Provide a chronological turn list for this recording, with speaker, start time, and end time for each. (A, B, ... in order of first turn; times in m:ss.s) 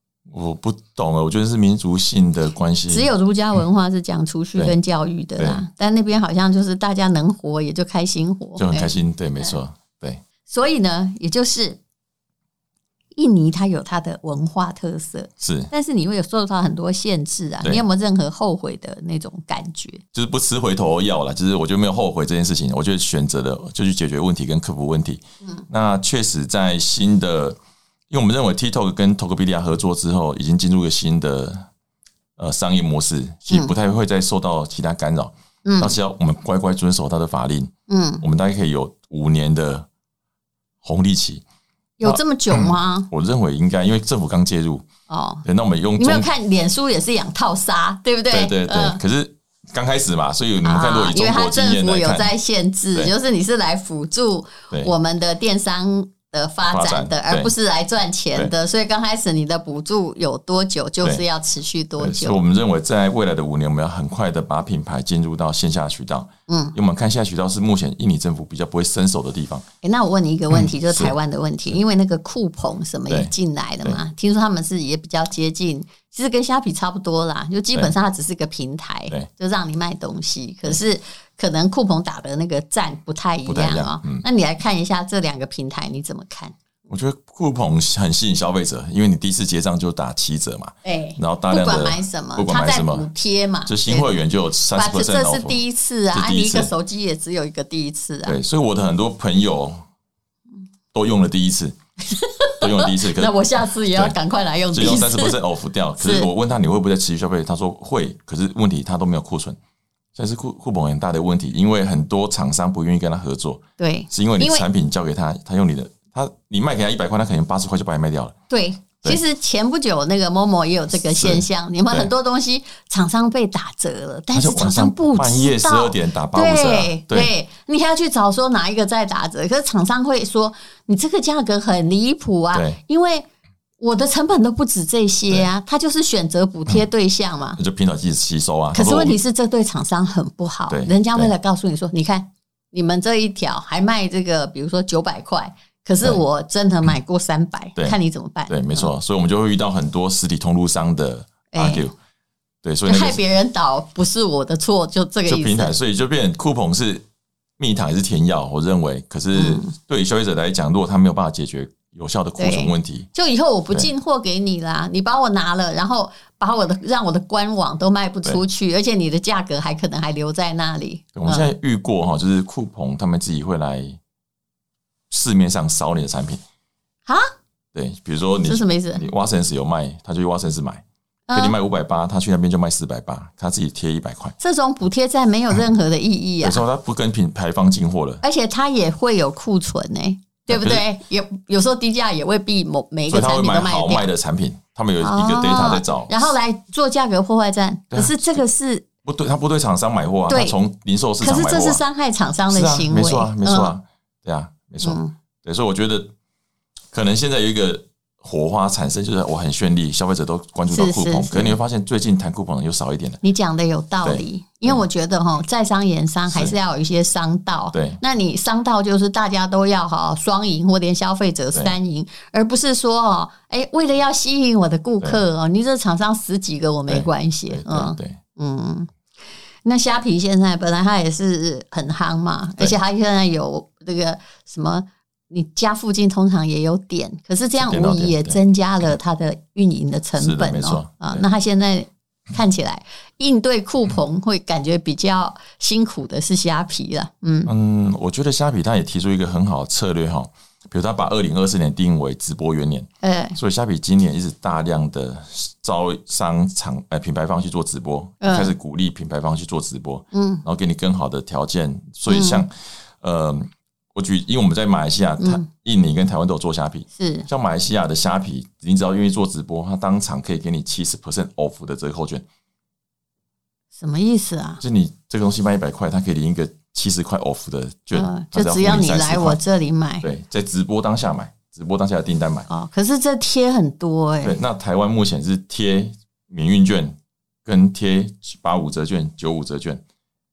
0:00.3-0:03.1 A
0:02.9-0:08.9 B
0:05.4-0:05.6 A
0:08.6-0:10.2 A
0:10.5-0:11.8 B
0:13.2-0:20.0 B
0:15.4-0:15.7 A
0:20.1-0:27.6 A
0:28.1-0:31.7 A
0:32.4-0:39.9 A
0:33.5-0:33.7 B
0:35.6-0:36.0 B
0:37.9-0:38.2 B
0:40.8-0:41.4 A
0:42.0-0:43.1 B
0:42.0-0:44.9 A
0:45.1-0:45.4 B
0:45.4-0:46.3 A
0:46.0-0:49.0 B
0:48.3-0:52.3 A
0:50.6-1:02.4 B
0:56.7-0:57.5 A
1:02.0-1:09.7 A
1:06.5-1:06.8 B
1:09.8-1:26.6 B
1:10.5-1:11.2 A
1:13.1-1:14.0 A
1:23.5-1:24.2 A
1:26.9-1:33.1 A
1:30.8-1:34.1 B
1:33.7-1:36.7 A
1:34.8-1:38.4 B
1:38.3-1:39.8 A
1:40.9-1:41.8 A
1:42.0-1:45.4 B
1:42.6-1:44.2 A
1:44.7-1:49.6 A
1:46.0-1:46.3 B
1:50.2-1:58.4 A
1:53.8-1:54.7 B
1:58.5-2:13.3 B
2:01.0-2:02.1 A
2:04.3-2:07.3 A
2:12.5-2:12.8 A
2:13.8-2:17.6 B
2:17.6-2:19.2 A
2:18.7-2:28.9 B
2:20.7-2:21.3 A
2:28.5-2:31.9 A
2:31.5-2:31.9 B
2:32.6-2:33.2 A
2:32.9-2:35.7 B
2:35.3-2:37.1 A
2:37.6-2:43.1 A
2:39.4-2:39.7 B
2:42.4-2:51.5 B
2:51.2-2:54.0 A
2:55.1-2:56.4 A
2:57.7-3:04.4 A
2:58.4-2:59.0 B
3:01.3-3:01.6 B
3:04.4-3:06.6 B
3:06.4-3:08.2 A
3:08.2-3:14.1 B
3:10.5-3:10.9 A
3:13.1-3:16.3 A
3:15.0-3:18.9 B
3:17.9-3:18.4 A
3:19.0-3:21.8 A
3:20.3-3:20.6 B
3:21.2-3:23.7 B
3:22.5-3:26.1 A
3:24.8-3:25.1 B
3:26.9-3:33.2 A
3:30.7-3:31.6 B
3:33.2-3:48.9 B
3:34.0-3:34.8 A
3:36.3-3:36.6 A
3:37.7-3:38.0 A
3:46.9-3:48.2 A
3:49.6-4:07.5 B
3:57.6-3:58.4 A
4:00.2-4:01.2 A
4:07.5-4:32.2 A
4:13.0-4:13.4 B
4:18.2-4:18.5 B
4:20.1-4:20.4 B
4:22.1-4:22.4 B
4:25.2-4:25.5 B
4:27.0-4:27.3 B
4:33.8-4:34.6 B
4:34.6-4:39.4 A
4:37.9-4:40.1 B
4:40.0-4:42.5 A
4:42.5-4:44.4 B
4:44.2-4:49.8 A